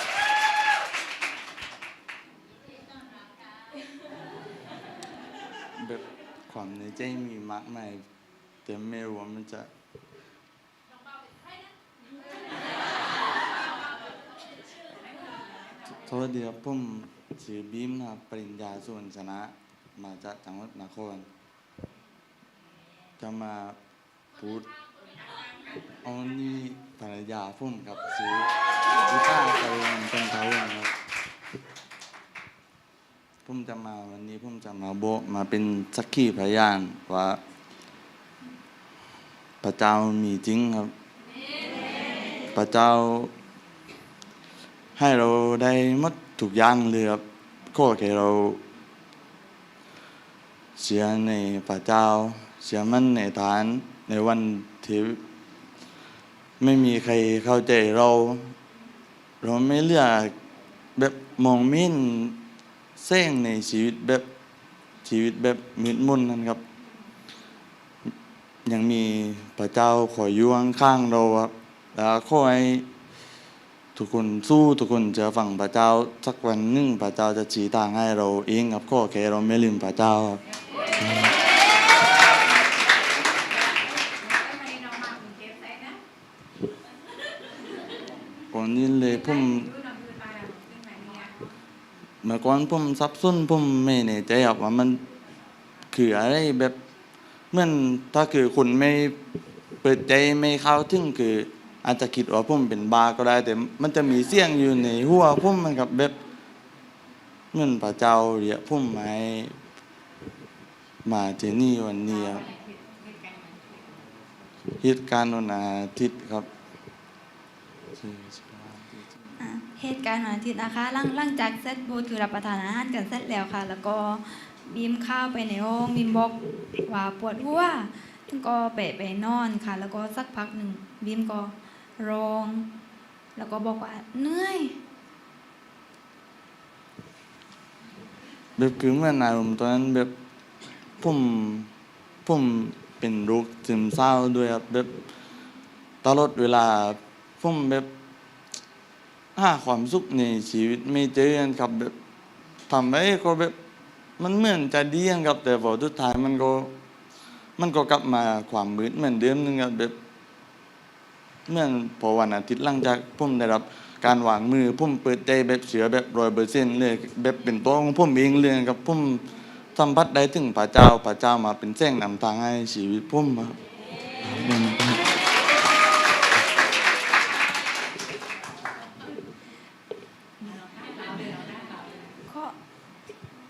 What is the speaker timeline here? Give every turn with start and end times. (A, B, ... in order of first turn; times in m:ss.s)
0:05.8-0:08.0 A
0:08.6-0:09.7 A
0:15.9-0:21.3 A
0:23.2-0:23.8 A
0:24.3-0:24.8 A
0:25.9-0:30.9 A
0:33.4-0:37.4 A
0:39.6-0:40.9 A
0:42.5-0:43.3 A
0:45.0-0:48.6 A
0:50.8-0:55.2 A
0:56.6-0:58.5 A
0:59.4-1:00.4 A
1:01.0-1:02.4 A
1:03.0-1:04.2 A
1:05.0-1:06.6 A
1:08.6-1:12.9 A
1:14.0-1:20.4 A
1:21.0-1:21.3 A
1:24.2-1:26.0 B
1:28.5-1:29.8 A
1:29.7-1:31.3 B
1:32.2-1:35.0 A
1:35.9-1:36.8 A
1:37.5-1:39.2 A
1:39.8-1:46.2 A
1:47.5-1:49.6 A
1:51.0-1:52.5 A
1:52.6-1:53.6 B
1:54.8-1:56.5 A
1:57.9-1:59.4 A
1:59.4-2:12.7 C
2:13.4-2:14.8 C
2:18.6-2:20.1 A
2:21.0-2:21.7 A
2:22.2-2:25.0 A
2:26.0-2:27.9 A
2:29.4-2:31.9 A
2:32.7-2:33.6 A
2:34.2-2:36.7 A
2:37.6-2:40.0 A
2:41.5-2:53.6 A
2:54.2-2:55.0 A
3:02.3-3:02.5 C